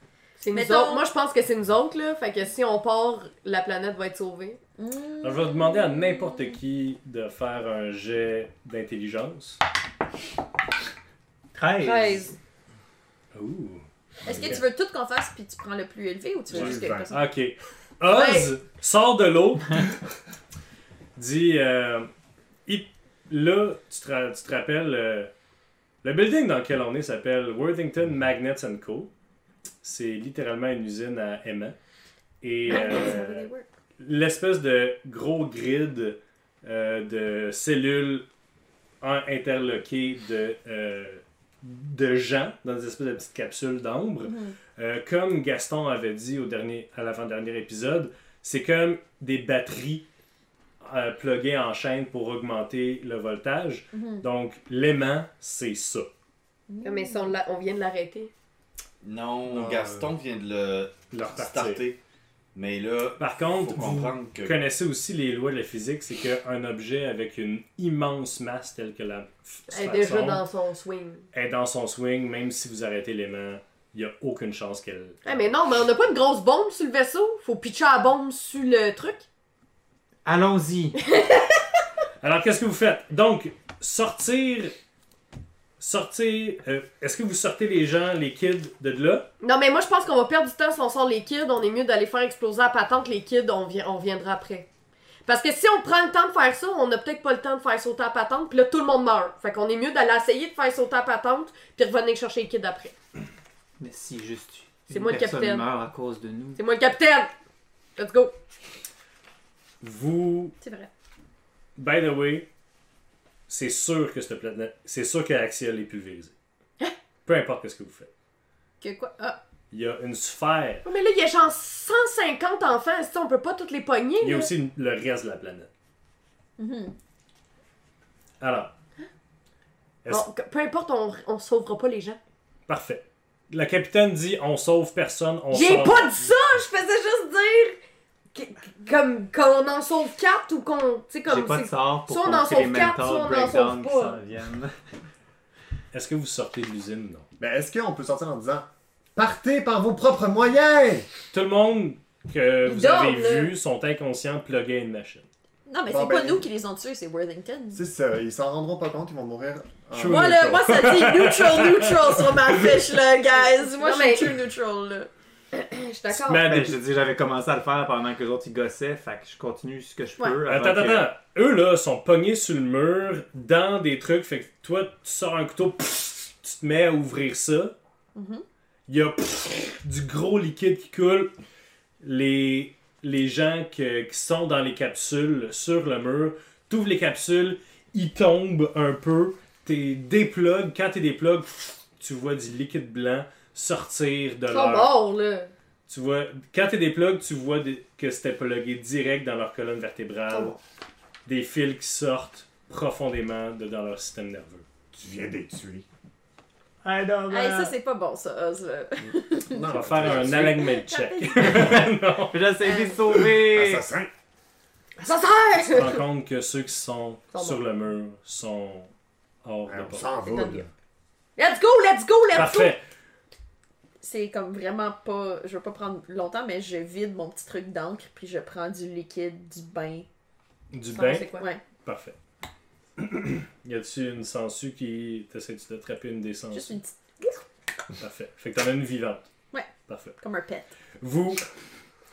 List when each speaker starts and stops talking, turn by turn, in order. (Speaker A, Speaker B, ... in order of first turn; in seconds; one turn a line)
Speaker A: 0.4-4.6
Speaker B: 0.5-1.1
Speaker B: 4.8-6.6
Speaker C: 5.2-9.6
Speaker D: 11.5-12.3
Speaker A: 11.8-12.3
Speaker C: 13.3-14.6
Speaker B: 14.2-17.2
Speaker E: 16.5-17.2
Speaker C: 16.5-19.9
Speaker B: 18.1-18.5
Speaker C: 21.2-22.1
Speaker C: 22.7-25.3
Speaker C: 26.0-29.1
Speaker C: 29.8-31.8
Speaker C: 32.4-33.5
Speaker B: 32.6-33.7
Speaker C: 34.0-38.3
Speaker C: 39.0-50.1
Speaker B: 44.2-44.5
Speaker C: 50.8-56.1
Speaker B: 53.9-54.2
Speaker B: 56.7-57.4
Speaker A: 56.8-58.3
Speaker F: 59.0-62.0
Speaker C: 59.5-60.0
Speaker C: 61.1-61.8
Speaker F: 62.5-64.6
Speaker C: 63.2-70.4
Speaker A: 69.7-71.3
Speaker C: 71.3-75.5
Speaker A: 75.2-79.2
Speaker D: 80.2-81.0
Speaker A: 81.1-81.5
Speaker C: 82.2-84.7
Speaker C: 85.8-89.3
Speaker A: 89.4-94.7
Speaker A: 95.3-103.0
Speaker D: 103.8-106.6
Speaker A: 104.9-105.7
Speaker A: 106.6-107.3
Speaker A: 108.0-108.4
Speaker C: 109.8-110.5
Speaker B: 110.6-110.9
Speaker C: 111.8-112.5
Speaker C: 113.5-116.3
Speaker C: 117.3-118.1
Speaker B: 118.8-119.4
Speaker C: 119.7-120.9
Speaker A: 120.9-124.5
Speaker C: 124.2-125.7
Speaker B: 126.6-127.0
Speaker C: 128.4-128.7
Speaker A: 130.1-132.2
Speaker C: 132.7-136.2
Speaker A: 135.5-137.8
Speaker A: 138.3-144.2
Speaker D: 141.3-145.0
Speaker C: 145.9-147.3
Speaker E: 147.4-151.1
Speaker C: 151.3-155.3
Speaker A: 152.7-153.5
Speaker B: 155.7-157.8
Speaker E: 155.9-156.5
Speaker E: 157.7-160.6
Speaker C: 159.9-162.3
Speaker B: 160.1-165.1
Speaker A: 163.4-164.3
Speaker A: 165.5-166.5
Speaker C: 166.1-166.8
Speaker D: 166.4-171.1
Speaker C: 170.5-177.8
Speaker B: 178.2-178.4
Speaker C: 178.9-181.3
Speaker C: 182.0-194.9
Speaker A: 194.5-195.5
Speaker C: 195.9-200.6
Speaker A: 200.3-200.6
Speaker C: 201.3-204.7
Speaker E: 204.9-205.9
Speaker D: 206.8-207.7
Speaker B: 207.3-211.8
Speaker E: 209.0-210.8
Speaker C: 209.7-212.4
Speaker D: 212.2-213.8
Speaker B: 212.6-213.2
Speaker E: 213.2-214.1
Speaker A: 215.0-216.0
Speaker C: 215.7-218.9
Speaker A: 217.3-217.6
Speaker C: 219.4-220.2
Speaker E: 219.7-220.7
Speaker A: 220.3-220.7
Speaker A: 221.4-222.7
Speaker C: 222.3-222.8
Speaker B: 224.0-230.1
Speaker C: 230.7-231.3
Speaker A: 230.9-231.5
Speaker C: 231.8-232.2
Speaker C: 233.0-236.8
Speaker B: 236.5-237.4
Speaker C: 238.0-239.3
Speaker B: 239.5-240.7
Speaker C: 239.9-240.2
Speaker C: 241.0-241.5